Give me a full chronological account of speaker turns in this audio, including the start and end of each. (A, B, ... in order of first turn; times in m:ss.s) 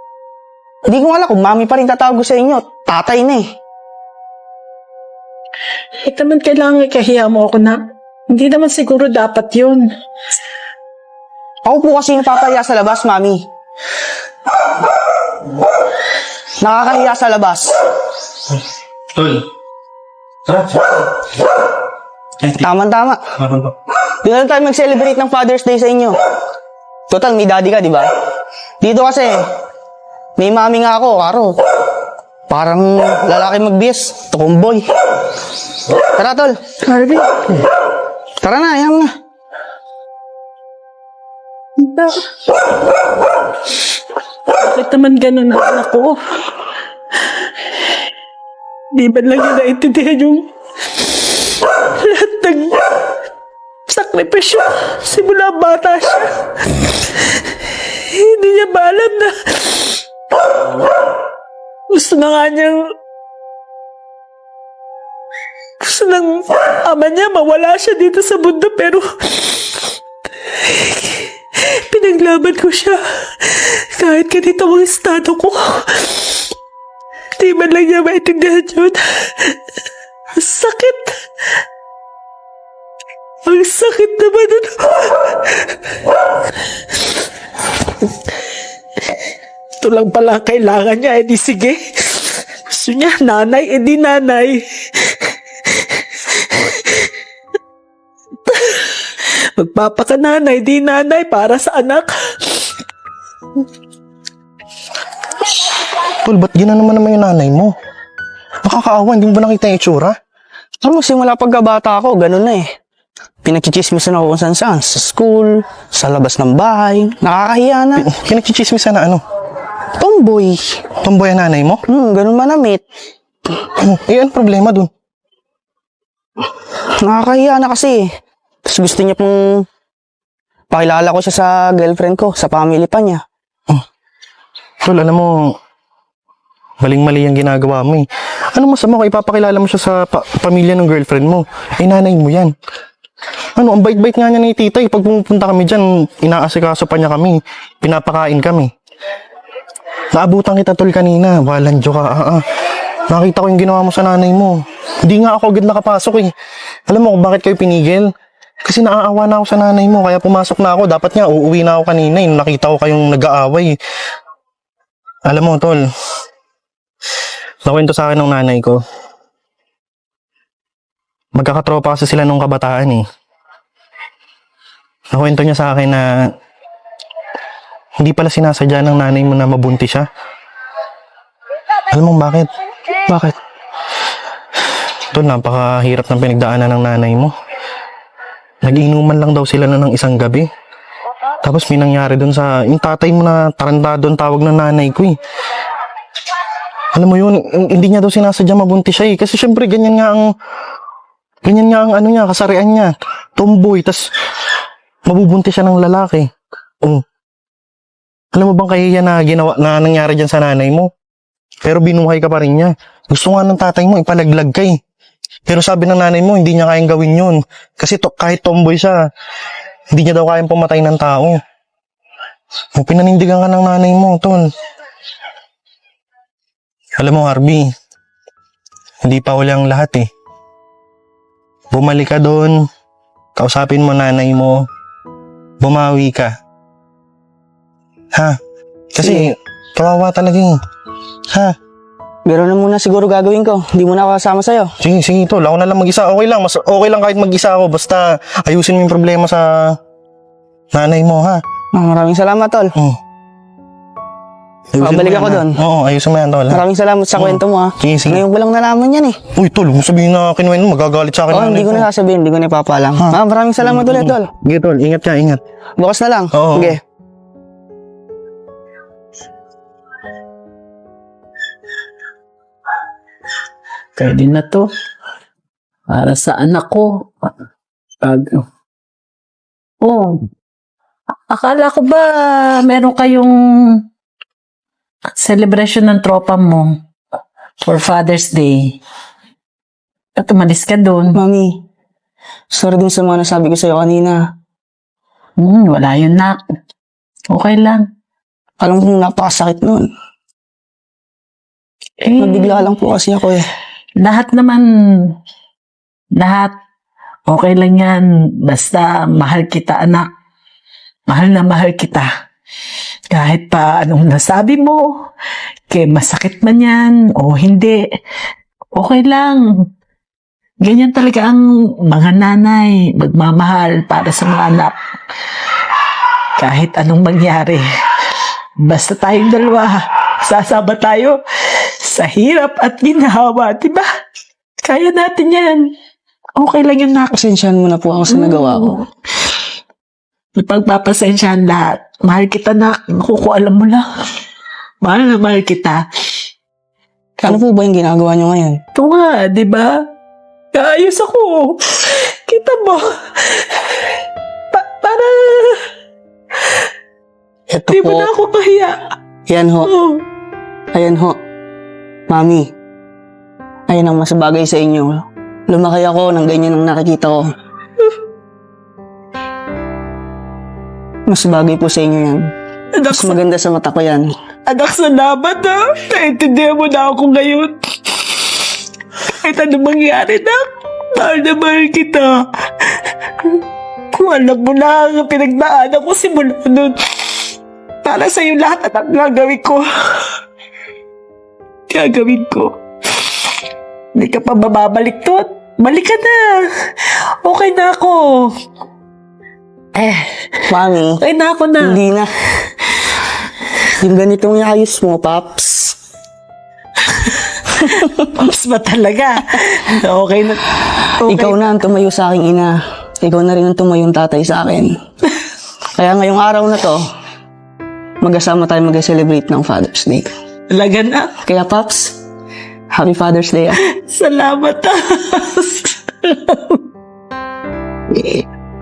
0:00.9-0:03.4 A
0:06.0-0:07.8 B
0:08.3-0:09.8 B
0:11.6-0:13.4 A
0:16.6-0:17.7 A
0:19.1-0:19.4 C
0:20.5-0:21.0 C
0:22.4-0:22.7 C
0:22.6-0:23.2 A
0:23.4-0:23.7 C
0:24.2-0:26.2 A
0:27.1-0:28.1 A
0:28.8-0:29.4 A
0:30.4-0:31.5 A
0:32.5-0:34.8 A
0:36.2-0:36.6 A
0:36.9-0:37.4 B
0:38.4-0:39.1 A
0:41.8-0:42.2 B
0:44.5-0:46.2 B
0:48.9-0:50.5 B
0:51.8-0:52.8 B
0:53.9-0:56.3 B
0:57.8-0:59.9 B
1:01.9-1:02.8 B
1:05.8-1:09.7 B
1:10.6-1:16.2 B
1:17.4-1:19.5 B
1:20.4-1:21.1 B
1:23.5-1:25.4 B
1:29.8-1:35.1 B
1:35.8-1:37.1 B
1:38.5-1:42.7 B
1:46.2-1:47.7 C
1:48.6-1:50.2 C
1:50.8-1:52.7 A
1:53.4-1:58.0 A
1:58.0-1:59.2 C
2:00.0-2:00.8 A
2:01.0-2:01.8 C
2:01.9-2:02.8 A
2:03.8-2:04.9 C
2:07.0-2:08.1 A
2:08.6-2:09.7 A
2:10.7-2:13.2 A
2:14.8-2:15.3 C
2:16.8-2:22.5 C
2:23.6-2:28.7 C
2:30.1-2:32.4 C
2:33.1-2:34.6 C
2:35.1-2:36.3 C
2:36.9-2:38.1 C
2:38.6-2:43.8 C
2:45.3-2:45.8 C
2:47.6-2:48.8 C
2:51.4-2:53.0 C
2:55.1-2:56.0 C
2:58.0-3:00.1 C
3:01.9-3:02.5 C
3:03.1-3:03.3 A
3:05.1-3:07.3 C
3:08.6-3:10.5 C
3:11.4-3:15.2 C
3:17.0-3:20.2 C
3:21.4-3:24.0 C
3:25.0-3:26.3 C
3:28.3-3:30.9 C
3:31.6-3:34.7 C
3:35.5-3:39.0 C
3:39.9-3:41.4 C
3:42.8-3:44.4 C
3:47.0-3:47.7 C
3:49.0-3:50.0 C
3:51.7-3:52.5 C
3:53.4-3:54.6 C
3:55.6-3:56.3 C
3:59.0-4:00.6 C
3:59.0-3:59.3 A
4:02.3-4:04.7 A
4:04.8-4:09.5 C
4:10.7-4:11.4 C
4:11.7-4:12.7 A
4:14.7-4:16.6 C
4:14.8-4:15.6 A
4:16.5-4:19.2 A
4:17.1-4:18.2 C
4:19.4-4:21.9 C
4:21.3-4:24.3 A
4:23.7-4:25.4 C
4:25.8-4:26.8 A
4:26.4-4:26.8 C
4:34.0-4:34.7 B
4:35.9-4:37.1 B
4:38.0-4:38.4 B
4:39.8-4:40.2 B
4:41.3-4:43.4 B
4:45.2-4:46.8 B
4:47.6-4:48.8 B
4:50.2-4:51.2 B
4:51.1-4:51.6 A
4:52.5-4:54.2 A
4:55.4-4:56.4 B
4:57.3-4:57.9 B
4:58.6-4:59.9 A
5:02.0-5:02.6 B
5:02.2-5:03.5 A
5:04.0-5:05.1 B
5:06.2-5:06.5 B
5:07.3-5:10.1 B
5:11.1-5:12.1 B
5:13.1-5:15.0 B
5:15.7-5:17.8 B
5:18.8-5:19.4 B
5:20.6-5:24.7 B
5:26.4-5:27.6 B
5:28.6-5:31.2 B
5:31.8-5:33.9 B
5:34.6-5:35.7 B
5:36.4-5:37.1 B
5:37.1-5:38.8 A
5:38.1-5:38.8 B
5:40.4-5:43.9 B
5:44.8-5:45.8 B
5:47.2-5:48.6 A
5:48.8-5:49.8 B
5:50.5-5:53.7 B
5:54.5-5:55.6 B
5:57.5-5:58.1 A
5:57.7-5:58.8 B
5:59.3-5:59.7 A
5:59.6-6:00.0 B
6:00.7-6:01.2 A
6:02.1-6:02.5 A
6:03.7-6:07.3 A
6:11.1-6:12.3 A
6:12.8-6:13.2 B
6:12.9-6:14.1 A
6:14.5-6:18.4 B
6:19.1-6:22.1 B
6:23.9-6:26.8 B
6:27.8-6:29.6 B
6:31.7-6:32.5 B
6:34.0-6:36.4 B
6:37.2-6:38.3 B
6:39.8-6:40.2 B
6:40.5-6:41.0 A
6:41.0-6:41.8 B
6:41.6-6:42.1 A
6:43.8-6:45.8 A
6:47.0-6:51.4 B
6:51.0-6:54.8 A
6:55.8-6:56.8 A
6:58.0-7:00.1 A
7:00.5-7:01.2 B
7:01.2-7:02.0 A
7:02.7-7:03.6 A
7:03.7-7:06.6 B
7:07.9-7:08.2 B